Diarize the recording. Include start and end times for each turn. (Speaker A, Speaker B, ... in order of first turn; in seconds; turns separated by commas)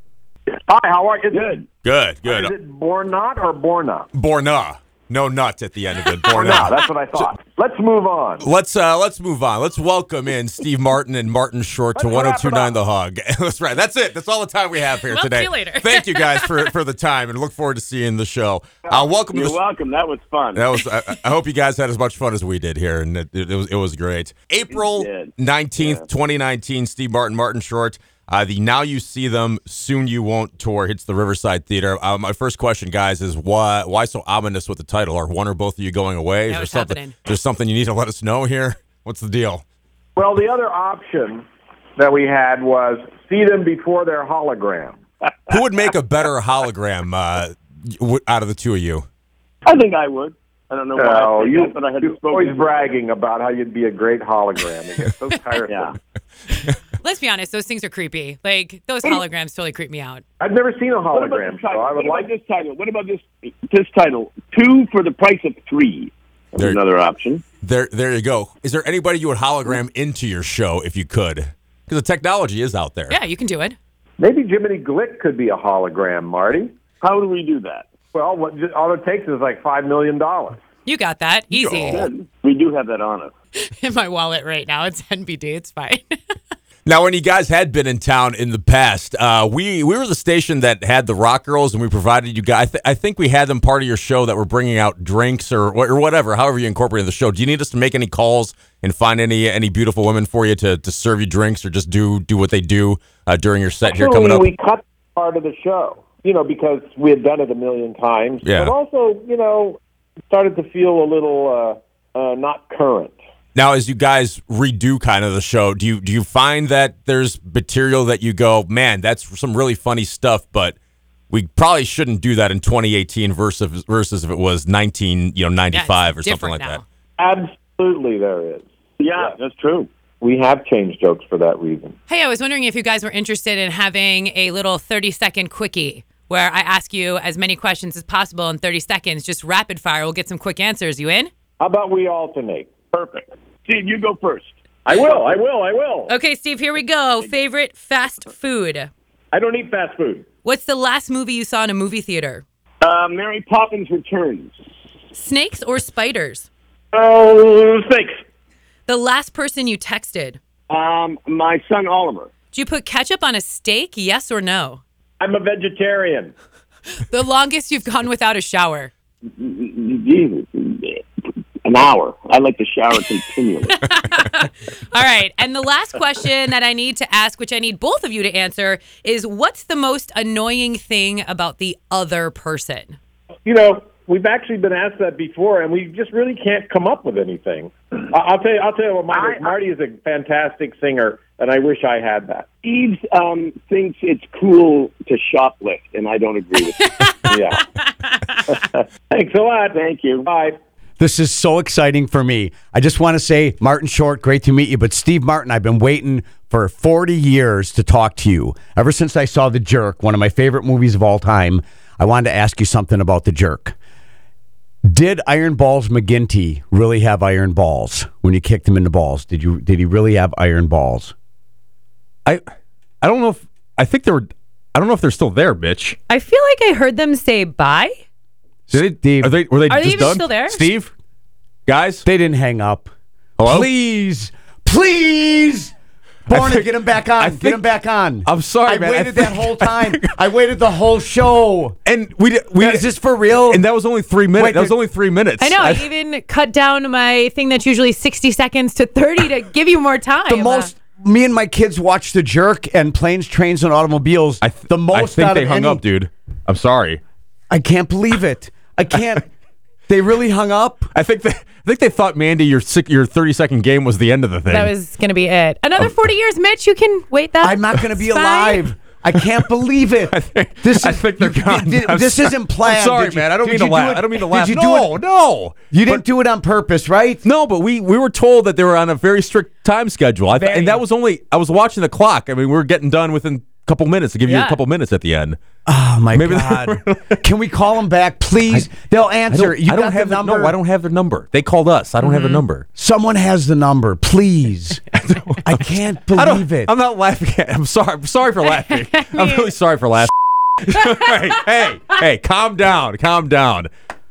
Speaker A: 0.6-1.6, Speaker B: 1.3-1.6, Speaker C: 1.8-2.5, Speaker A: 2.2-4.1, Speaker C: 4.1-7.3, Speaker D: 6.2-6.6, Speaker A: 6.3-8.5, Speaker C: 8.4-19.6, Speaker A: 12.0-12.8, Speaker D: 14.9-16.7, Speaker B: 18.9-20.6, Speaker C: 20.5-39.6, Speaker B: 24.7-26.0, Speaker D: 36.5-37.2, Speaker A: 40.2-41.5, Speaker A: 42.0-45.0, Speaker C: 45.5-49.1, Speaker B: 49.7-52.9, Speaker A: 51.0-55.9, Speaker B: 55.7-56.0, Speaker D: 56.5-60.2, Speaker A: 60.4-62.3, Speaker B: 61.1-67.4, Speaker C: 67.6-73.2, Speaker D: 73.1-73.8, Speaker A: 74.2-76.7, Speaker B: 77.0-77.9, Speaker A: 78.1-80.6, Speaker D: 80.8-82.1, Speaker C: 81.5-82.1, Speaker B: 81.9-83.3, Speaker D: 83.6-86.1, Speaker C: 86.9-104.5, Speaker A: 103.8-109.8, Speaker C: 108.4-108.7, Speaker A: 110.3-113.2, Speaker C: 113.5-120.8, Speaker C: 121.3-126.8, Speaker D: 125.7-126.8, Speaker A: 127.2-129.3, Speaker B: 129.0-129.9, Speaker A: 130.2-131.9, Speaker D: 132.1-141.3, Speaker A: 141.6-142.7, Speaker B: 142.9-145.3, Speaker A: 144.8-146.1, Speaker D: 146.1-148.9, Speaker A: 149.3-150.2, Speaker D: 150.4-152.4, Speaker B: 152.8-154.5, Speaker D: 155.1-156.5, Speaker A: 156.9-158.1, Speaker D: 158.9-160.4, Speaker B: 160.7-162.3, Speaker D: 162.5-164.8, Speaker A: 165.2-166.3, Speaker D: 167.1-168.9, Speaker B: 169.3-171.1, Speaker B: 171.6-173.8, Speaker D: 173.7-182.9, Speaker A: 183.4-192.5, Speaker B: 192.6-196.8, Speaker D: 196.8-198.6, Speaker A: 197.3-197.7, Speaker A: 198.5-200.6, Speaker B: 199.7-200.3, Speaker E: 201.0-213.8, Speaker E: 214.8-221.1, Speaker C: 223.0-226.0, Speaker D: 226.1-228.0, Speaker E: 228.7-229.3, Speaker C: 228.7-230.9, Speaker D: 229.7-230.7, Speaker C: 231.7-232.1, Speaker E: 232.0-232.9, Speaker C: 233.4-233.7, Speaker E: 233.4-235.7, Speaker C: 236.3-237.7, Speaker E: 236.3-241.8, Speaker C: 238.2-240.1, Speaker C: 241.8-242.8, Speaker E: 242.6-243.7, Speaker C: 243.5-245.9, Speaker E: 244.3-244.8, Speaker D: 245.4-250.7, Speaker E: 250.3-255.8, Speaker C: 254.4-257.0, Speaker E: 257.5-259.3, Speaker E: 259.9-260.9, Speaker C: 260.9-264.7, Speaker D: 264.5-268.7, Speaker E: 267.4-275.0, Speaker C: 270.1-276.0, Speaker E: 275.7-277.2, Speaker C: 277.2-285.4, Speaker E: 280.3-280.8, Speaker D: 284.2-284.6, Speaker E: 285.7-290.6, Speaker C: 286.1-287.2, Speaker C: 289.3-292.7, Speaker D: 292.0-292.4, Speaker E: 292.7-294.9, Speaker C: 294.9-295.5, Speaker E: 295.4-296.7, Speaker C: 296.1-303.7, Speaker D: 298.5-299.5